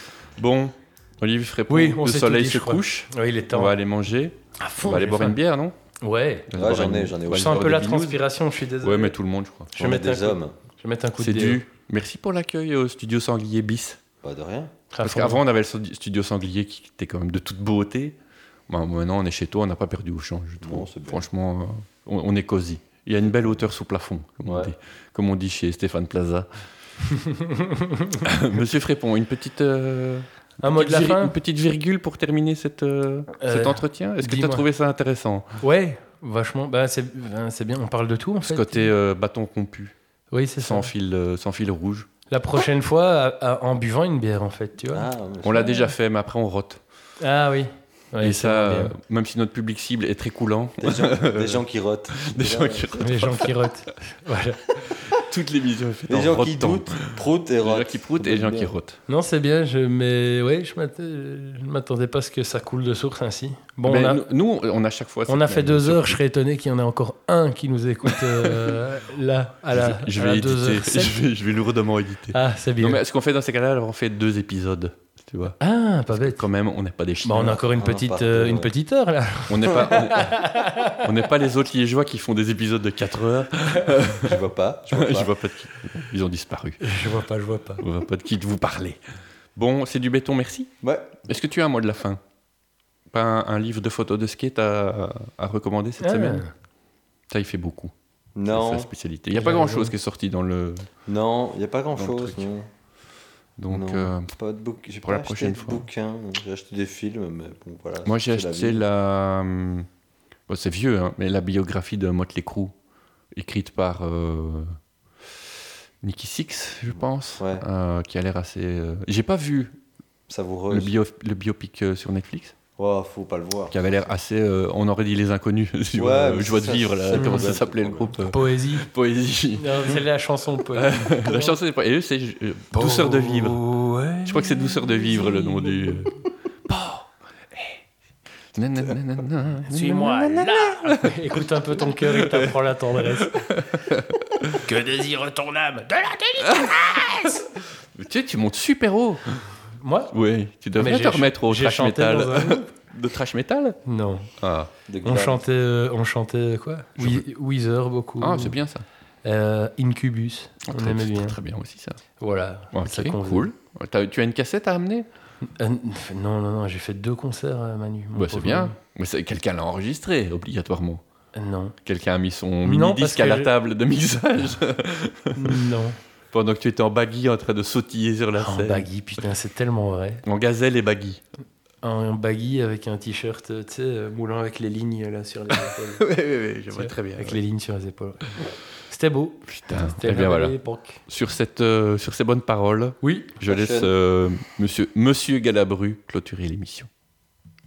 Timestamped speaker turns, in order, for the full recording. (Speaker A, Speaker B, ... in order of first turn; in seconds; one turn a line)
Speaker A: 0.4-5.8
Speaker B: 1.7-3.7
Speaker B: 4.6-5.4
Speaker B: 6.0-6.5
Speaker A: 6.5-8.2
Speaker C: 6.5-7.7
Speaker B: 7.3-9.2
Speaker A: 8.8-9.7
Speaker B: 9.7-11.6
Speaker C: 9.8-10.6
Speaker A: 11.2-14.0
Speaker C: 14.2-14.8
Speaker B: 14.9-15.4
Speaker A: 15.0-18.2
Speaker A: 18.7-26.5
Speaker C: 20.6-21.2
Speaker C: 24.4-24.7
Speaker B: 27.1-28.3
Speaker A: 28.2-35.6
Speaker B: 30.6-31.4
Speaker B: 33.4-34.7
Speaker B: 35.6-38.9
Speaker A: 38.4-39.9
Speaker B: 40.3-40.9
Speaker A: 40.6-42.1
Speaker B: 42.3-45.1
Speaker C: 44.9-45.7
Speaker A: 45.4-46.8
Speaker B: 47.2-49.0
Speaker A: 48.2-53.5
Speaker C: 50.8-53.0
Speaker B: 53.0-54.8
Speaker A: 54.8-59.0
Speaker C: 56.1-58.7
Speaker B: 59.1-64.2
Speaker A: 63.9-66.2
Speaker B: 65.3-71.2
Speaker A: 68.1-68.7
Speaker A: 69.7-77.7
Speaker B: 72.3-73.0
Speaker B: 75.6-76.4
Speaker B: 77.2-81.1
Speaker C: 77.8-78.7
Speaker A: 79.5-84.4
Speaker C: 84.1-85.3
Speaker A: 84.9-86.9
Speaker B: 86.8-87.8
Speaker A: 87.8-89.0
Speaker A: 89.6-90.7
Speaker C: 90.8-91.2
Speaker A: 91.2-92.2
Speaker A: 93.1-96.5
Speaker B: 96.0-96.5
Speaker A: 97.3-97.9
Speaker C: 98.4-98.9
Speaker A: 98.5-100.9
Speaker B: 99.3-99.9
Speaker C: 101.1-102.7
Speaker A: 102.0-102.4
Speaker A: 103.6-104.3
Speaker C: 103.7-108.8
Speaker A: 105.0-105.8
Speaker A: 108.0-109.9
Speaker A: 110.5-112.7
Speaker A: 113.3-114.8
Speaker A: 116.0-119.8
Speaker C: 117.4-117.6
Speaker C: 120.3-121.0
Speaker A: 120.7-122.6
Speaker C: 122.8-123.8
Speaker A: 123.7-130.0
Speaker C: 126.0-128.2
Speaker B: 127.2-127.5
Speaker B: 128.3-128.9
Speaker B: 129.6-131.6
Speaker A: 130.7-133.6
Speaker B: 132.8-136.1
Speaker A: 134.2-136.2
Speaker A: 136.7-137.7
Speaker A: 138.6-144.6
Speaker B: 139.7-143.5
Speaker B: 144.5-147.3
Speaker A: 146.4-149.4
Speaker B: 149.8-150.1
Speaker A: 150.1-153.8
Speaker B: 150.8-152.6
Speaker B: 153.9-154.3
Speaker A: 154.4-154.7
Speaker C: 154.9-155.4
Speaker B: 155.1-158.6
Speaker A: 157.0-157.2
Speaker A: 158.2-158.8
Speaker B: 159.2-161.4
Speaker A: 160.7-162.0
Speaker B: 162.2-163.5
Speaker A: 162.7-165.1
Speaker B: 165.4-168.8
Speaker A: 168.2-171.0
Speaker B: 171.3-171.8
Speaker A: 171.9-175.6
Speaker B: 172.6-173.5
Speaker B: 175.3-176.0
Speaker A: 176.3-178.9
Speaker B: 178.4-180.2
Speaker A: 180.2-181.2
Speaker B: 181.8-186.0
Speaker A: 185.5-187.4
Speaker B: 186.7-191.0
Speaker A: 189.5-196.9
Speaker B: 193.0-193.3
Speaker C: 193.4-193.9